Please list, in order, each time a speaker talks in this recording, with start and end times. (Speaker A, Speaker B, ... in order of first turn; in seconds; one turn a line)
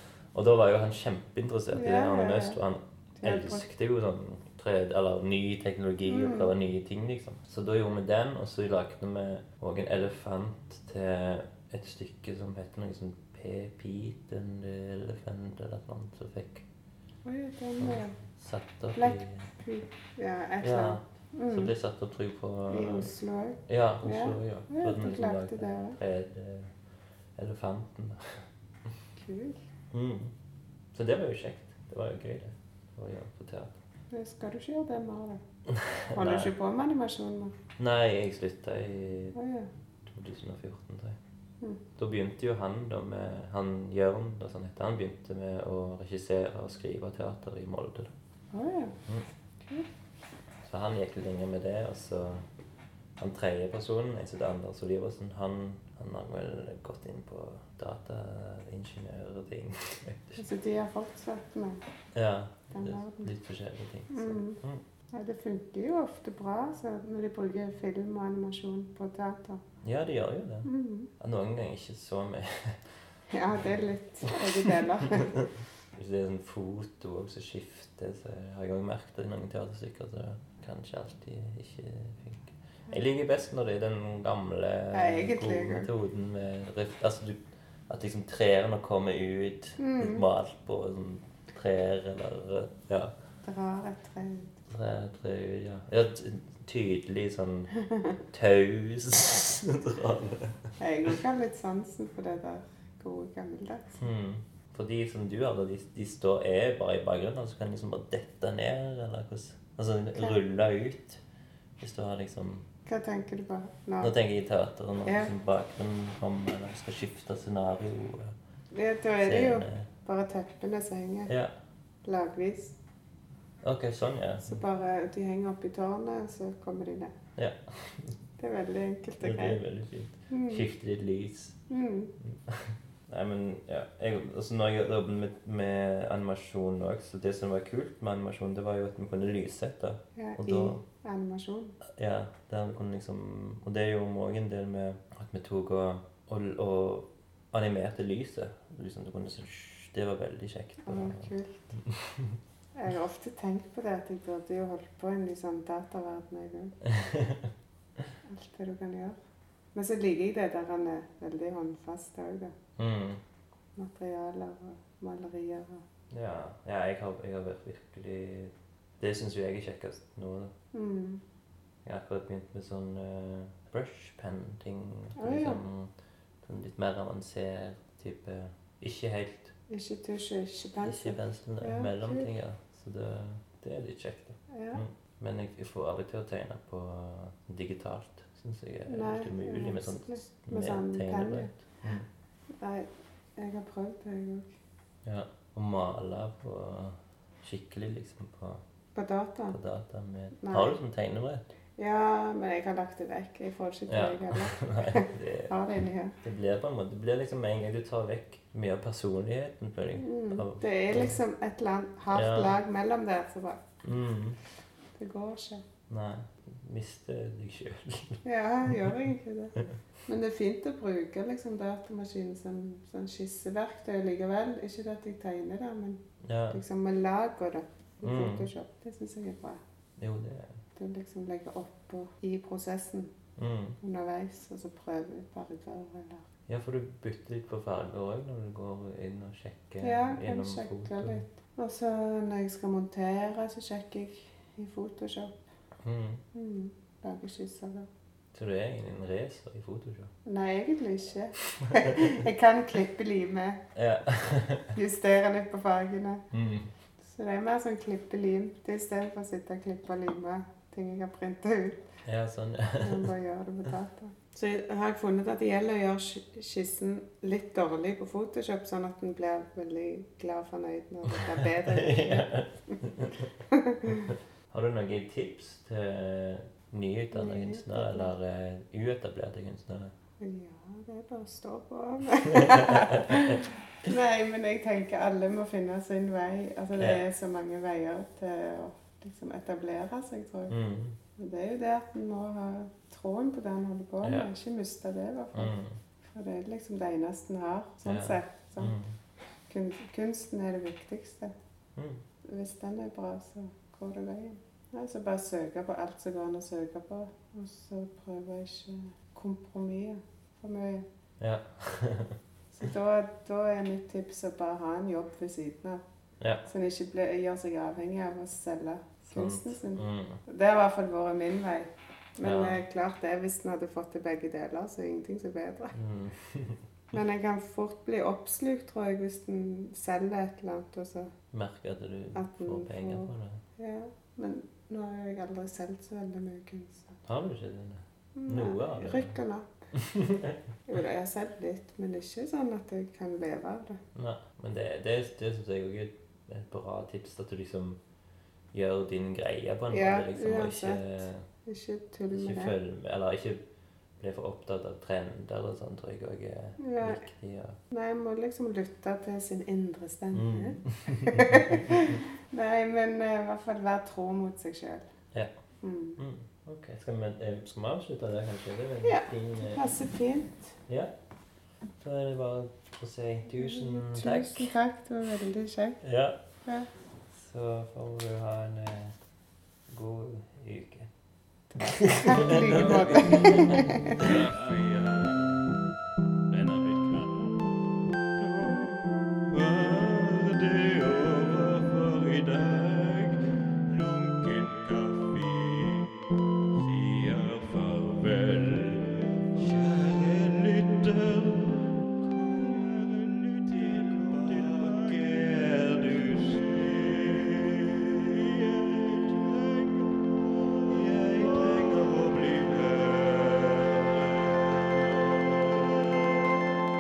Speaker A: 0.3-16.6
Speaker B: 1.7-2.6
Speaker B: 3.2-3.6
Speaker B: 6.0-6.5
Speaker B: 17.2-18.2
Speaker A: 17.8-19.5
Speaker B: 18.9-21.7
Speaker A: 20.6-23.1
Speaker B: 22.7-26.0
Speaker A: 23.7-26.7
Speaker A: 27.4-28.4
Speaker B: 29.2-29.6
Speaker A: 29.9-30.3
Speaker A: 30.9-33.8
Speaker B: 34.1-35.4
Speaker A: 35.7-36.5
Speaker B: 36.1-37.6
Speaker A: 37.8-39.4
Speaker B: 39.3-39.7
Speaker A: 40.0-41.2
Speaker A: 42.0-48.1
Speaker B: 48.5-49.0
Speaker B: 49.6-49.9
Speaker A: 50.6-52.5
Speaker A: 53.2-60.5
Speaker B: 60.4-61.8
Speaker A: 62.1-64.8
Speaker B: 62.7-63.3
Speaker B: 64.1-64.6
Speaker B: 65.1-69.6
Speaker A: 69.8-73.0
Speaker B: 70.7-71.1
Speaker B: 73.3-75.3
Speaker A: 74.2-93.1
Speaker B: 84.9-85.9
Speaker B: 89.8-90.2
Speaker B: 93.4-94.6
Speaker A: 94.7-97.8
Speaker A: 98.3-101.1
Speaker B: 100.8-104.0
Speaker A: 104.0-111.2
Speaker A: 111.8-112.6
Speaker B: 112.9-114.1
Speaker A: 114.0-118.3
Speaker B: 115.0-115.3
Speaker B: 118.7-121.3
Speaker A: 119.2-119.9
Speaker A: 121.3-121.5
Speaker B: 122.0-122.7
Speaker A: 123.6-124.6
Speaker B: 124.4-127.1
Speaker A: 127.4-128.2
Speaker B: 128.4-129.6
Speaker A: 129.2-131.6
Speaker B: 130.3-130.7
Speaker B: 131.7-132.1
Speaker A: 132.2-140.8
Speaker B: 140.2-141.8
Speaker A: 141.9-152.4
Speaker B: 150.8-151.6
Speaker B: 152.7-156.7
Speaker A: 156.8-157.5
Speaker B: 158.2-159.2
Speaker B: 159.7-162.6
Speaker A: 162.8-163.2
Speaker B: 163.7-165.8
Speaker A: 166.1-170.5
Speaker B: 170.7-171.2
Speaker A: 171.8-175.9
Speaker B: 175.2-175.6
Speaker A: 176.4-179.5
Speaker B: 179.7-182.3
Speaker A: 180.8-192.1
Speaker B: 184.5-184.8
Speaker B: 188.9-191.5
Speaker B: 192.6-194.5
Speaker A: 195.1-198.6
Speaker B: 198.9-199.6
Speaker A: 199.5-201.4
Speaker B: 200.4-200.7
Speaker B: 201.8-206.2
Speaker A: 203.9-205.5
Speaker A: 206.2-211.2
Speaker B: 209.9-213.6
Speaker A: 212.1-212.5
Speaker A: 213.8-214.4
Speaker B: 215.0-215.6
Speaker A: 215.9-219.0
Speaker B: 218.2-219.5
Speaker B: 220.0-229.6
Speaker A: 226.2-226.6
Speaker A: 228.0-228.5
Speaker A: 230.0-230.6
Speaker B: 230.8-233.1
Speaker A: 233.4-233.8
Speaker B: 233.8-236.2
Speaker A: 236.5-241.2
Speaker B: 239.8-245.4
Speaker A: 245.8-246.2
Speaker B: 246.3-247.9
Speaker A: 248.3-250.1
Speaker B: 250.2-253.6
Speaker A: 251.5-252.1
Speaker A: 253.8-254.8
Speaker B: 254.7-256.2
Speaker A: 256.3-256.7
Speaker B: 257.0-261.9
Speaker A: 262.0-263.1
Speaker B: 262.8-272.8
Speaker A: 271.4-273.3
Speaker B: 273.5-274.1
Speaker A: 273.9-279.9
Speaker B: 277.1-278.1
Speaker B: 280.2-290.6
Speaker A: 282.1-283.4
Speaker A: 286.8-287.0
Speaker A: 290.5-291.0
Speaker B: 291.2-298.8
Speaker A: 294.0-294.3
Speaker A: 295.3-295.8
Speaker A: 297.8-298.9
Speaker B: 299.5-301.3
Speaker A: 301.8-302.0
Speaker B: 302.2-310.9
Speaker A: 311.2-312.2
Speaker B: 312.5-315.8
Speaker B: 316.5-325.8
Speaker A: 319.1-320.2
Speaker A: 322.2-322.6
Speaker A: 325.7-326.6
Speaker B: 326.9-331.1
Speaker A: 331.3-333.4
Speaker B: 332.1-337.0
Speaker A: 337.1-339.2
Speaker B: 338.1-339.5
Speaker A: 339.7-340.4
Speaker B: 340.7-343.8
Speaker A: 343.9-347.8
Speaker A: 348.5-351.2
Speaker B: 349.7-350.8
Speaker B: 351.5-352.5
Speaker A: 352.1-353.4
Speaker A: 354.0-357.6
Speaker B: 356.6-357.0
Speaker B: 357.7-364.9
Speaker A: 360.1-362.0
Speaker B: 365.6-366.0
Speaker A: 366.0-369.7
Speaker B: 368.8-370.6
Speaker A: 370.7-370.9
Speaker A: 371.8-374.5
Speaker B: 373.3-375.8
Speaker A: 375.8-376.2
Speaker B: 376.4-376.7
Speaker A: 377.1-378.9
Speaker A: 379.7-380.9
Speaker B: 381.5-384.1
Speaker A: 381.6-384.1
Speaker C: 384.0-385.5
Speaker C: 386.3-387.5
Speaker C: 388.2-395.9
Speaker C: 396.6-416.2